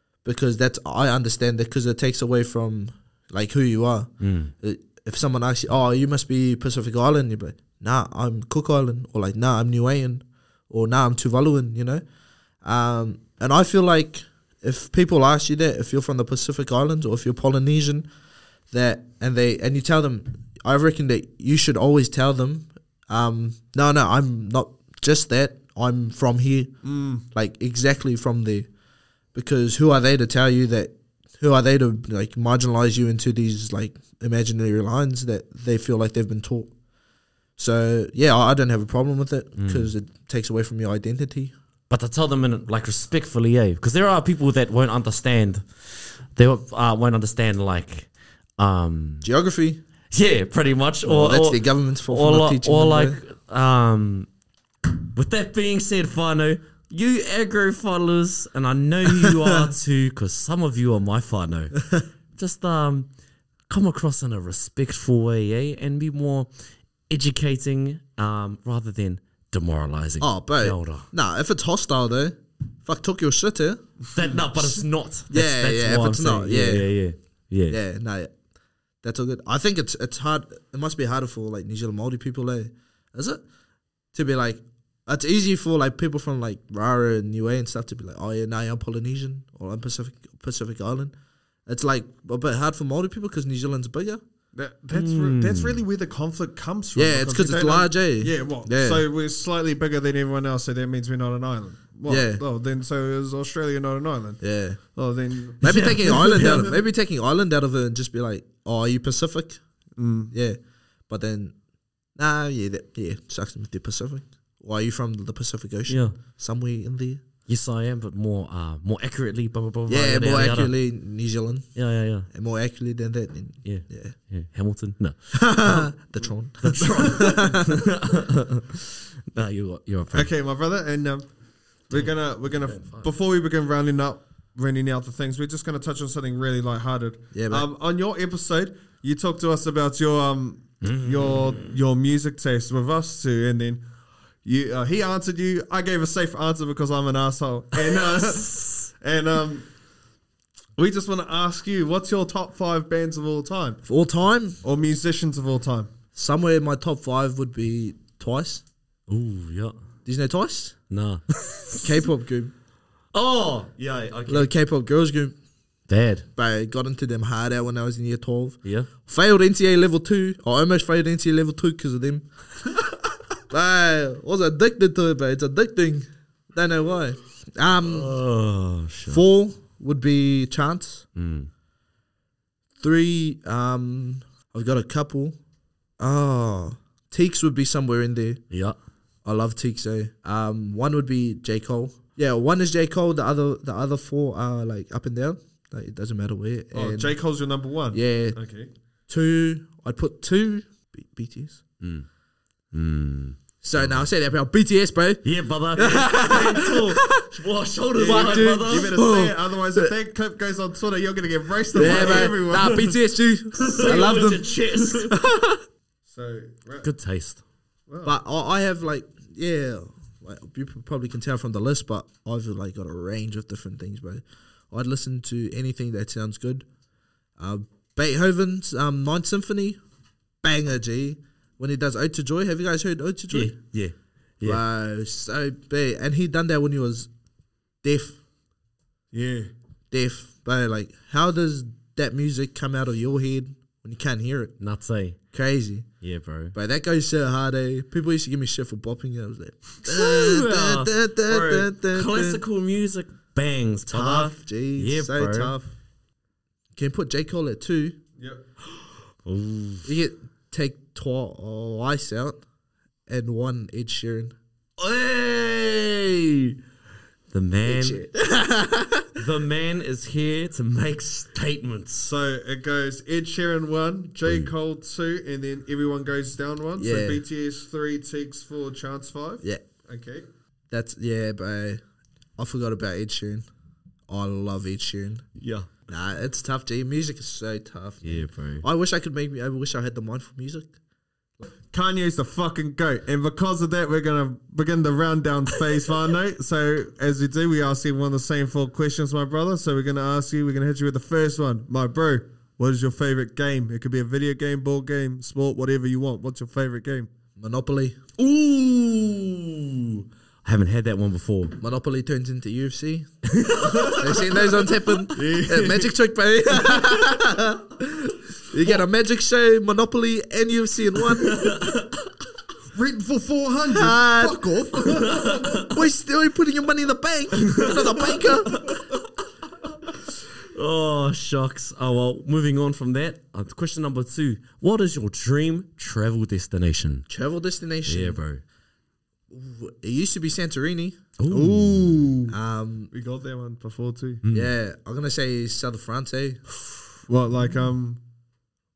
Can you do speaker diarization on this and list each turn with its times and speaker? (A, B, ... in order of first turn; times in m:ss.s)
0:00.2-0:12.0 A
0:04.2-0:04.5 B
0:12.6-0:18.1 A
0:18.7-0:28.7 A
0:26.8-0:27.2 C
0:29.3-0:36.8 A
0:37.6-0:41.6 A
0:39.6-0:39.9 B
0:41.9-0:49.3 B
0:49.2-0:49.8 A
0:50.1-0:54.3 B
0:51.0-0:53.2 A
0:55.1-1:01.8 B
1:02.4-1:03.1 B
1:03.7-1:06.5 B
1:07.1-1:11.1 B
1:10.2-1:13.9 A
1:14.1-1:17.8 B
1:15.3-1:16.9 A
1:17.7-1:18.4 A
1:19.0-1:23.4 A
1:24.1-1:31.1 A
1:31.7-1:34.2 A
1:34.5-1:46.8 C
1:34.9-1:35.8 B
1:37.0-1:39.0 A
1:42.1-1:42.4 A
1:44.4-1:44.8 A
1:45.6-1:49.6 A
1:45.7-1:46.2 B
1:50.0-1:50.3 C
1:50.3-1:51.6 A
1:52.2-1:57.2 A
1:55.9-1:56.2 B
1:57.5-2:00.7 B
1:59.9-2:04.2 A
2:01.8-2:02.3 B
2:03.6-2:06.0 B
2:05.3-2:07.8 A
2:06.6-2:10.3 B
2:06.8-2:07.3 C
2:10.1-2:23.8 C
2:11.9-2:13.1 B
2:17.3-2:17.7 A
2:20.8-2:21.8 B
2:24.4-2:29.7 C
2:28.2-2:28.9 B
2:30.8-2:33.8 C
2:33.9-2:34.6 A
2:34.6-2:35.9 C
2:36.2-2:38.6 A
2:39.1-2:39.8 B
2:40.0-2:40.8 A
2:40.9-2:41.9 B
2:41.8-2:42.5 A
2:43.1-2:44.5 B
2:44.3-2:45.4 A
2:45.9-2:46.3 B
2:46.4-2:52.3 A
2:48.6-2:48.9 B
2:53.5-2:58.1 A
2:57.8-2:59.2 B
2:59.1-3:01.1 A
3:01.2-3:01.5 B
3:02.8-3:05.4 A
3:06.0-3:08.4 A
3:08.5-3:08.8 B
3:09.2-3:17.2 A
3:16.7-3:18.7 C
3:17.9-3:18.4 A
3:19.1-3:21.6 A
3:21.8-3:22.1 B
3:22.7-3:24.1 B
3:23.6-3:27.2 A
3:25.2-3:29.0 B
3:26.0-3:27.0 C
3:28.0-3:33.0 C
3:28.1-3:29.9 A
3:31.7-3:35.6 A
3:31.8-3:32.5 B
3:33.6-3:35.2 B
3:33.7-3:34.1 C
3:36.1-3:36.9 C
3:36.8-3:37.4 B
3:37.9-3:38.1 C
3:38.0-3:46.7 A
3:47.4-3:49.8 A
3:50.4-3:53.6 A
3:53.3-3:54.6 B
3:54.4-3:57.1 A
3:57.8-3:58.2 A
3:59.1-3:59.5 C
3:59.9-4:04.6 A
4:04.6-4:05.2 B
4:05.3-4:05.9 A
4:06.0-4:06.6 B
4:06.5-4:12.4 A
4:09.8-4:15.6 B
4:13.9-4:15.7 A
4:16.8-4:18.0 A
4:19.2-4:19.9 B
4:19.8-4:22.4 A
4:23.1-4:24.4 A
4:24.8-4:26.6 B
4:27.3-4:28.1 B
4:27.7-4:29.2 A
4:29.2-4:32.1 B
4:32.0-4:40.2 C
4:34.3-4:34.5 B
4:36.8-4:37.2 A
4:40.7-4:41.8 A
4:42.4-4:43.5 A
4:44.1-4:45.3 A
4:45.4-4:45.7 B
4:45.9-4:50.8 A
4:48.0-4:48.7 B
4:51.4-5:07.1 C
5:07.4-5:08.0 A
5:08.2-5:11.6 B
5:11.6-5:13.1 A
5:13.3-5:14.6 B
5:13.6-5:14.2 C
5:14.0-5:21.6 A
5:15.1-5:15.9 C
5:21.2-5:22.1 B
5:22.7-5:25.4 C
5:23.7-5:24.6 A
5:25.1-5:25.7 B
5:25.5-5:28.7 A
5:28.5-5:29.0 B
5:30.5-5:37.1 B
5:37.1-5:38.2 A
5:37.9-5:38.4 B
5:39.3-5:41.2 A
5:41.2-5:42.0 B
5:41.3-5:42.4 C
5:42.3-5:42.9 A
5:42.9-5:44.2 C
5:44.2-5:44.5 B
5:44.3-5:46.4 A
5:47.1-5:48.0 C